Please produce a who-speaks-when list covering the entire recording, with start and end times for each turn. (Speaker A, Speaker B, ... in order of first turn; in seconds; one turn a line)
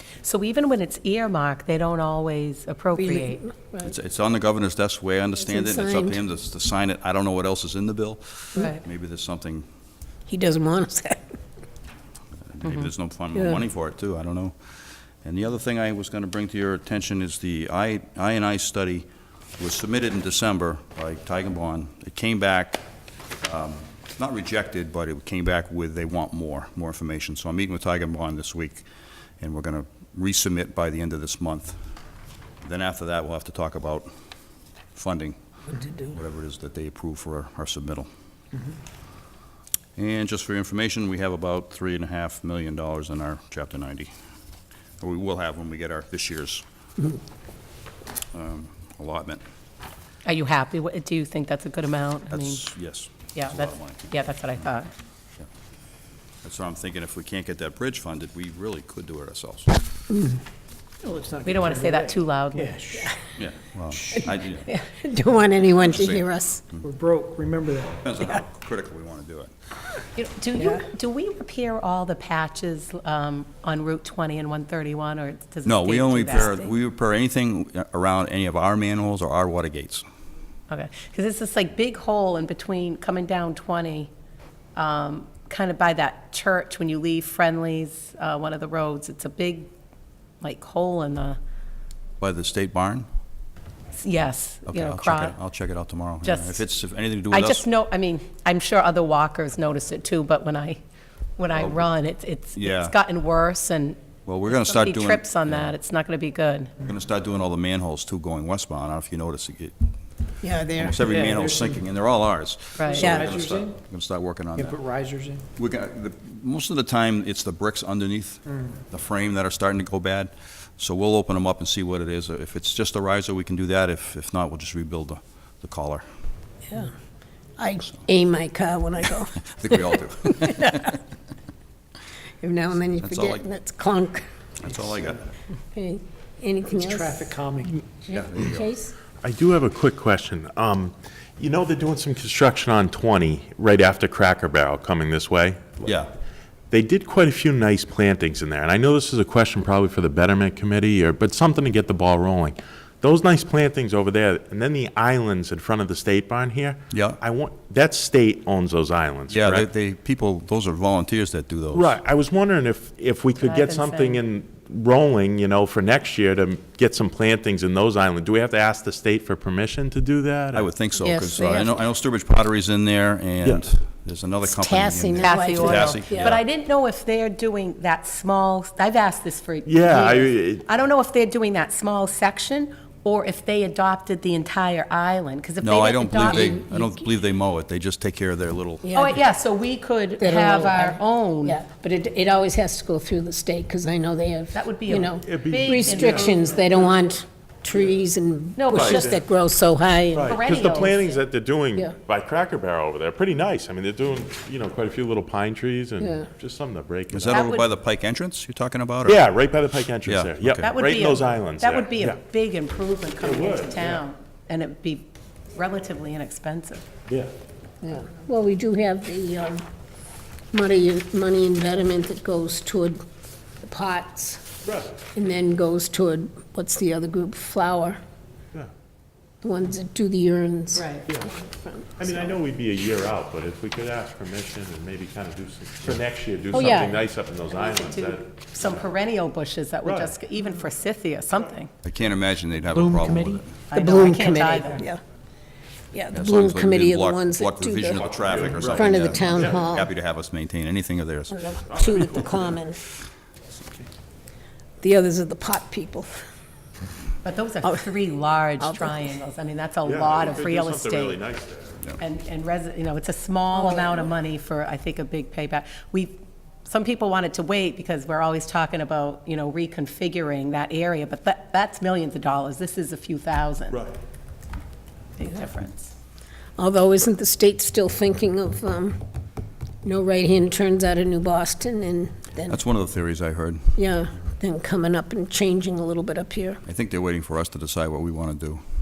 Speaker A: 0.2-3.4
Speaker B: 2.9-3.9
Speaker C: 3.8-9.7
Speaker B: 5.4-6.2
Speaker A: 8.6-8.8
Speaker B: 10.3-11.2
Speaker C: 12.5-14.5
Speaker B: 13.3-13.6
Speaker C: 15.2-19.1
Speaker C: 19.6-22.8
Speaker C: 23.4-28.9
Speaker C: 29.4-31.8
Speaker C: 32.6-34.1
Speaker C: 34.9-38.1
Speaker C: 40.0-44.1
Speaker C: 45.0-46.6
Speaker C: 48.3-49.4
Speaker A: 50.2-52.6
Speaker C: 52.3-54.1
Speaker A: 53.3-54.9
Speaker C: 56.4-59.7
Speaker B: 60.1-60.4
Speaker D: 61.0-63.0
Speaker A: 61.4-63.1
Speaker C: 63.4-64.7
Speaker B: 64.1-66.6
Speaker C: 65.8-66.8
Speaker D: 66.8-68.0
Speaker C: 67.8-69.5
Speaker A: 70.2-76.6
Speaker B: 70.5-70.8
Speaker C: 75.6-80.0
Speaker A: 80.7-84.1
Speaker A: 84.8-89.7
Speaker A: 90.4-91.4
Speaker C: 92.2-93.0
Speaker A: 94.0-95.3
Speaker C: 94.7-97.7
Speaker A: 96.2-96.6
Speaker A: 97.3-100.8
Speaker A: 101.4-106.7
Speaker C: 101.6-101.8
Speaker C: 102.5-102.9
Speaker C: 104.2-105.7
Speaker C: 106.8-109.7
Speaker B: 110.4-111.0
Speaker C: 110.8-114.8
Speaker D: 111.1-111.8
Speaker A: 112.8-113.1
Speaker B: 112.9-113.3
Speaker D: 113.0-113.7
Speaker D: 114.5-115.4
Speaker C: 115.5-126.0
Speaker B: 127.6-130.9
Speaker C: 129.5-131.0
Speaker B: 132.4-134.2
Speaker C: 133.0-133.4
Speaker C: 134.6-135.3
Speaker B: 135.7-137.3
Speaker D: 136.7-137.8
Speaker B: 138.0-138.9
Speaker C: 138.1-138.6
Speaker E: 139.2-146.0
Speaker C: 145.8-146.1
Speaker E: 146.7-159.7
Speaker C: 156.9-157.2
Speaker C: 159.3-162.0
Speaker E: 161.7-170.7
Speaker A: 163.4-164.2
Speaker C: 170.5-176.4
Speaker A: 171.0-171.8
Speaker B: 174.4-176.4
Speaker A: 175.2-186.6
Speaker E: 179.7-180.6
Speaker C: 185.6-188.9
Speaker B: 186.2-187.0
Speaker B: 188.8-189.2
Speaker A: 188.9-191.6
Speaker B: 190.2-200.4
Speaker A: 194.5-196.5
Speaker E: 195.2-196.2
Speaker A: 198.6-199.1
Speaker E: 198.7-199.2
Speaker E: 200.1-207.5
Speaker A: 200.2-201.2
Speaker B: 206.0-206.3
Speaker C: 207.1-209.2
Speaker A: 207.3-207.7
Speaker E: 209.0-212.2
Speaker C: 210.0-210.7
Speaker A: 210.6-216.8
Speaker E: 213.2-214.0
Speaker E: 217.1-217.3
Speaker B: 217.8-219.6
Speaker B: 220.5-223.0
Speaker B: 223.6-224.5
Speaker E: 224.6-225.0
Speaker B: 225.1-228.0
Speaker B: 229.4-232.4
Speaker A: 230.7-231.1
Speaker E: 232.0-238.9
Speaker B: 236.5-237.1
Speaker A: 237.5-241.7
Speaker E: 239.8-240.2
Speaker C: 241.8-243.6
Speaker D: 242.7-243.4
Speaker A: 243.7-244.8
Speaker B: 243.7-245.0
Speaker B: 245.9-248.1
Speaker C: 246.1-251.5
Speaker E: 247.9-249.6
Speaker B: 248.6-249.9
Speaker B: 251.3-252.8
Speaker E: 251.6-252.6
Speaker B: 254.8-256.2
Speaker A: 257.2-261.2
Speaker B: 258.6-259.2
Speaker E: 259.8-261.8
Speaker A: 262.0-273.8
Speaker B: 263.5-264.0
Speaker E: 273.7-274.0
Speaker A: 275.2-275.9
Speaker B: 276.6-279.0
Speaker B: 279.8-282.6
Speaker C: 282.4-283.8
Speaker B: 283.8-286.6
Speaker C: 286.6-288.6